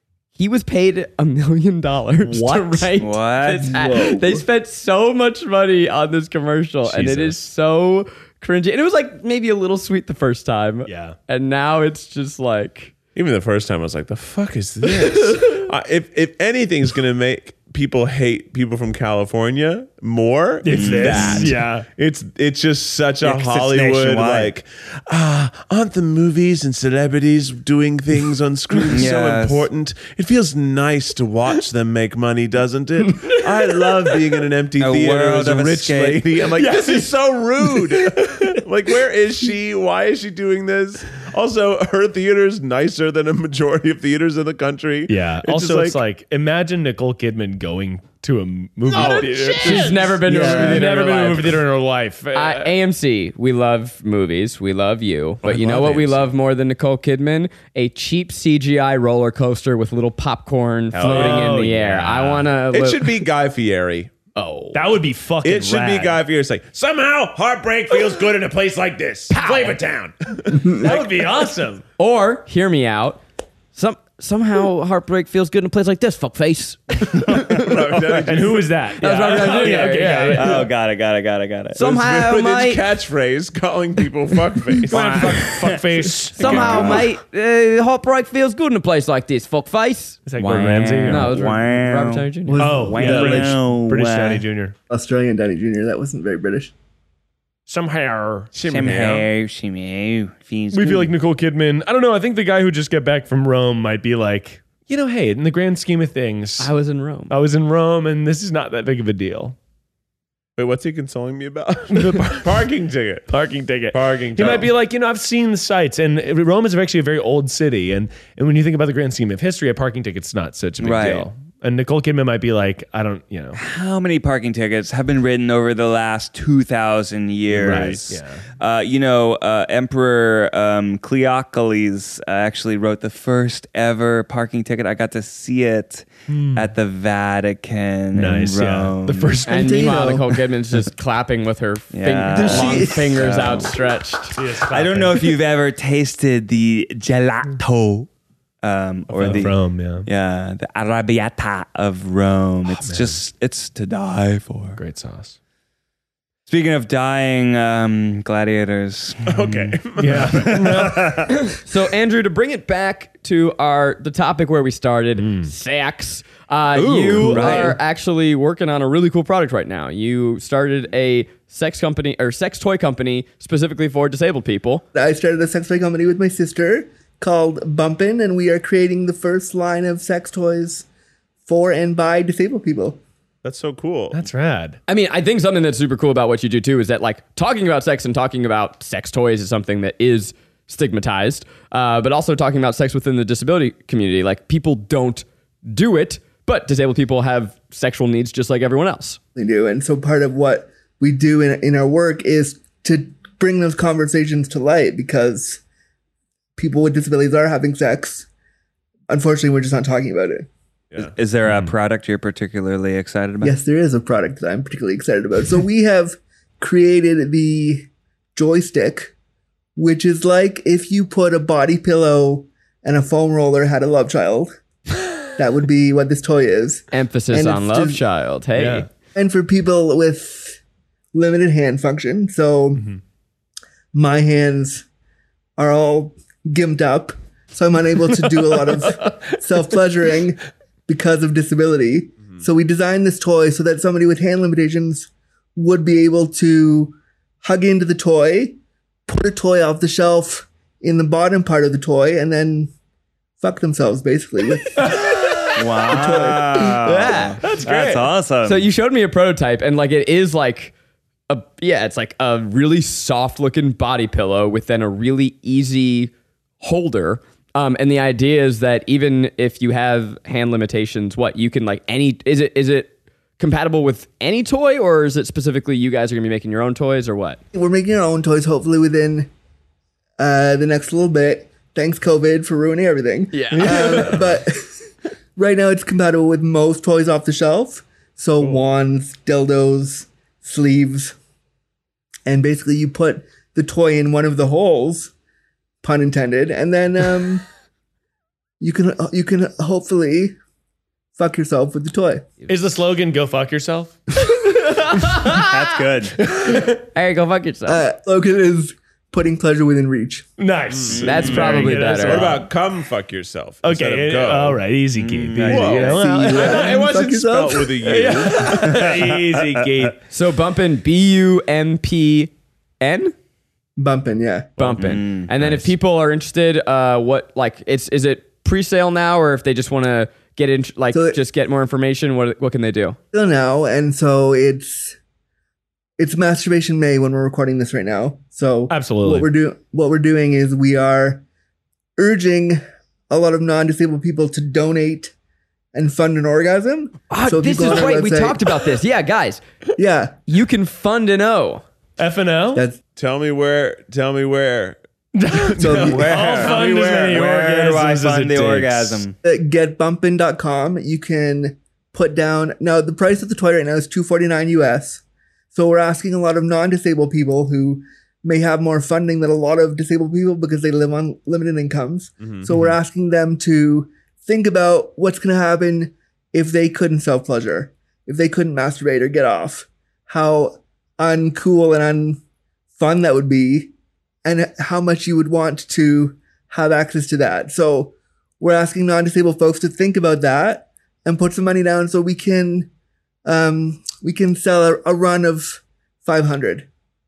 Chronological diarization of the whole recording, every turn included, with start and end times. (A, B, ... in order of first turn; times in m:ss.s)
0:00.4-0:12.9 A
0:02.2-0:02.9 B
0:03.0-0:03.8 C
0:03.6-0:04.5 D
0:06.9-0:07.3 B
0:07.0-0:07.3 E
0:10.8-0:11.2 B
0:13.2-0:46.0 E
0:20.6-0:21.9 B
0:20.7-0:21.7 C
0:21.1-0:21.5 A
0:23.2-0:24.5 C
0:28.9-0:29.7 C
0:34.8-0:36.5 C
0:36.6-0:37.1 B
0:45.1-0:52.7 B
0:48.9-0:51.6 A
0:52.3-1:03.2 A
0:55.4-0:56.3 E
1:00.9-1:01.7 E
1:01.0-1:02.5 B
1:02.7-1:04.1 E
1:04.4-1:04.8 A
1:04.7-1:06.2 B
1:05.4-1:10.9 E
1:09.3-1:09.8 B
1:10.5-1:11.8 B
1:12.0-1:13.2 A
1:13.8-1:17.7 A
1:17.2-1:17.8 C
1:17.5-1:18.7 E
1:18.2-1:20.7 B
1:19.0-1:20.6 A
1:19.5-1:21.9 C
1:21.8-1:22.8 A
1:21.8-1:25.4 E
1:24.9-1:27.0 B
1:24.9-1:27.0 C
1:26.4-1:30.2 A
1:26.5-1:27.0 E
1:30.3-1:31.4 B
1:30.4-1:34.4 C
1:31.1-1:32.7 A
1:32.5-1:33.6 D
1:32.6-1:34.8 B
1:34.9-1:36.7 D
1:37.7-1:39.3 B
1:38.6-1:39.1 E
1:38.6-1:41.1 C
1:40.7-1:46.7 B
1:46.6-1:47.4 A
1:47.3-1:49.6 B
1:50.6-1:53.3 E
1:51.9-1:52.6 B
1:53.3-2:03.6 B
1:53.9-1:54.7 E
2:00.8-2:01.3 C
2:03.6-2:19.4 C
2:07.5-2:08.5 B
2:16.3-2:16.7 B
2:18.1-2:20.2 B
2:19.5-2:20.3 D
2:19.5-2:24.4 A
2:21.9-2:23.7 C
2:22.3-2:23.4 D
2:24.4-2:25.3 B
2:24.7-2:28.1 C
2:28.6-2:34.8 C
2:29.1-2:30.1 B
2:32.7-2:33.2 B
2:34.7-2:35.4 B
2:36.5-2:41.3 C
2:39.3-2:40.9 E
2:40.0-2:41.2 B
2:41.4-2:54.8 A
2:45.2-2:45.5 B
2:46.8-2:47.8 C
2:54.9-3:00.8 D
3:01.5-3:03.0 D
3:03.4-3:04.2 E
3:04.1-3:04.8 B
3:04.9-3:19.2 A
3:19.4-3:25.6 D
3:26.6-3:28.3 D
3:29.1-3:30.5 D
3:31.0-3:33.6 C
3:31.5-3:31.7 B
3:33.4-3:39.1 D
3:39.8-3:44.5 D
3:45.4-3:48.0 D
3:46.9-3:48.9 A
3:48.6-3:48.9 B
3:49.2-3:50.6 D
3:51.1-3:52.9 D
3:53.9-3:54.8 D
3:55.6-4:12.7 D
3:58.3-3:59.1 B
4:13.4-4:16.8 D
4:14.8-4:15.6 B
4:15.6-4:18.7 C
4:16.8-4:17.5 A
4:17.4-4:18.1 B
4:18.4-4:20.7 A
4:21.3-4:37.4 A
4:37.5-4:39.3 D
4:40.2-4:44.6 D
4:43.3-4:44.2 A
4:45.4-4:51.2 D
4:52.3-4:55.1 D
4:55.8-4:57.4 D
4:58.6-5:00.4 D
5:01.2-5:02.3 D
5:02.5-5:04.0 B
5:04.4-5:05.6 A
5:05.2-5:06.2 C
5:06.3-5:06.7 B
5:06.9-5:07.8 A
5:07.7-5:10.3 D
5:10.4-5:12.5 B
5:10.7-5:14.6 E
5:10.9-5:11.7 C
5:11.0-5:12.3 A
5:13.6-5:16.9 B
5:15.0-5:16.0 C
5:15.4-5:18.8 E
5:15.8-5:17.8 D
5:17.8-5:20.0 B
5:18.6-5:19.8 C
5:20.1-5:23.1 A
5:23.8-5:24.8 D
5:24.6-5:33.0 A
5:24.8-5:25.3 C
5:25.4-5:25.7 B
5:30.9-5:31.2 D
5:33.1-5:35.0 D
5:36.0-5:41.2 D
5:38.7-5:39.3 B
5:42.0-5:45.1 D
5:45.7-5:48.6 D
5:47.1-5:49.4 A
5:49.8-5:50.2 D
5:50.3-5:51.6 A
5:52.0-5:52.6 B
5:52.5-5:52.8 D
5:53.0-5:54.8 E
5:55.2-5:59.0 B
5:55.3-5:56.5 E
5:55.6-5:56.5 D
5:55.8-5:59.2 C
5:59.2-6:22.2 D
6:12.2-6:12.8 E
6:22.8-6:23.7 D
6:24.2-6:32.7 D
6:33.3-6:36.7 D